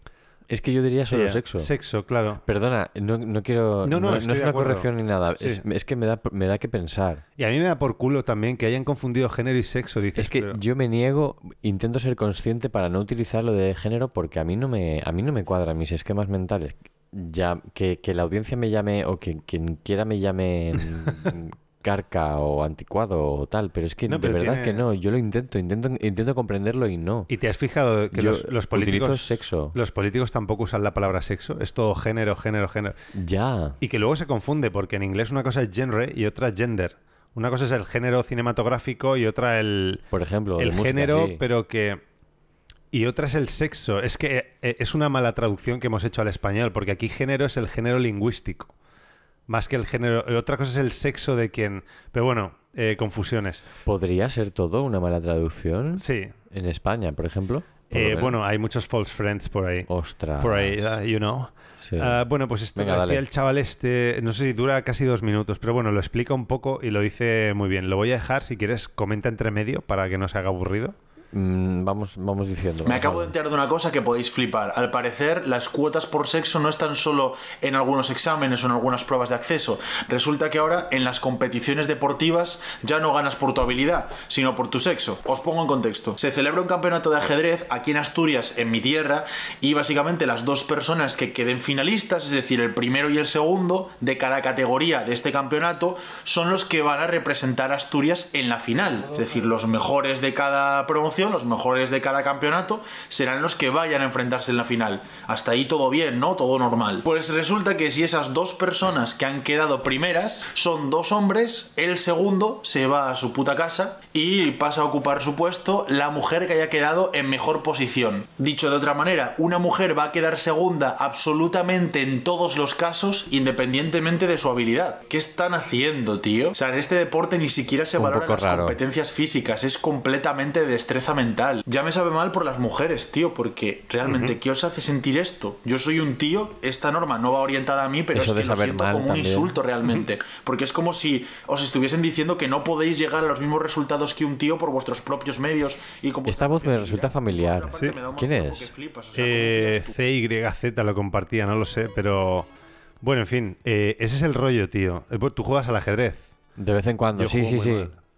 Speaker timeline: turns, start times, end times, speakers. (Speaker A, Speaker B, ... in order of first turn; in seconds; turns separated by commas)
Speaker A: 0.5-1.7, Speaker B: 1.1-2.4, Speaker A: 2.4-7.2, Speaker B: 3.8-5.6, Speaker B: 7.4-10.6, Speaker A: 10.2-27.3, Speaker B: 24.1-24.8, Speaker B: 27.3-33.0, Speaker A: 28.1-29.8, Speaker A: 33.1-33.8, Speaker B: 33.8-40.0, Speaker A: 40.1-41.4, Speaker B: 40.6-42.0, Speaker B: 42.9-48.7, Speaker B: 49.5-53.6, Speaker A: 53.8-58.4, Speaker B: 56.0-56.3, Speaker B: 57.9-59.9, Speaker A: 59.9-60.9, Speaker B: 60.4-70.9, Speaker A: 61.8-63.2, Speaker A: 71.3-73.3, Speaker C: 72.8-149.9, Speaker A: 128.0-128.8, Speaker B: 134.0-134.3, Speaker A: 138.1-139.6, Speaker A: 146.2-148.7, Speaker B: 149.1-152.5, Speaker B: 153.0-156.2, Speaker A: 156.6-157.9, Speaker B: 157.1-158.0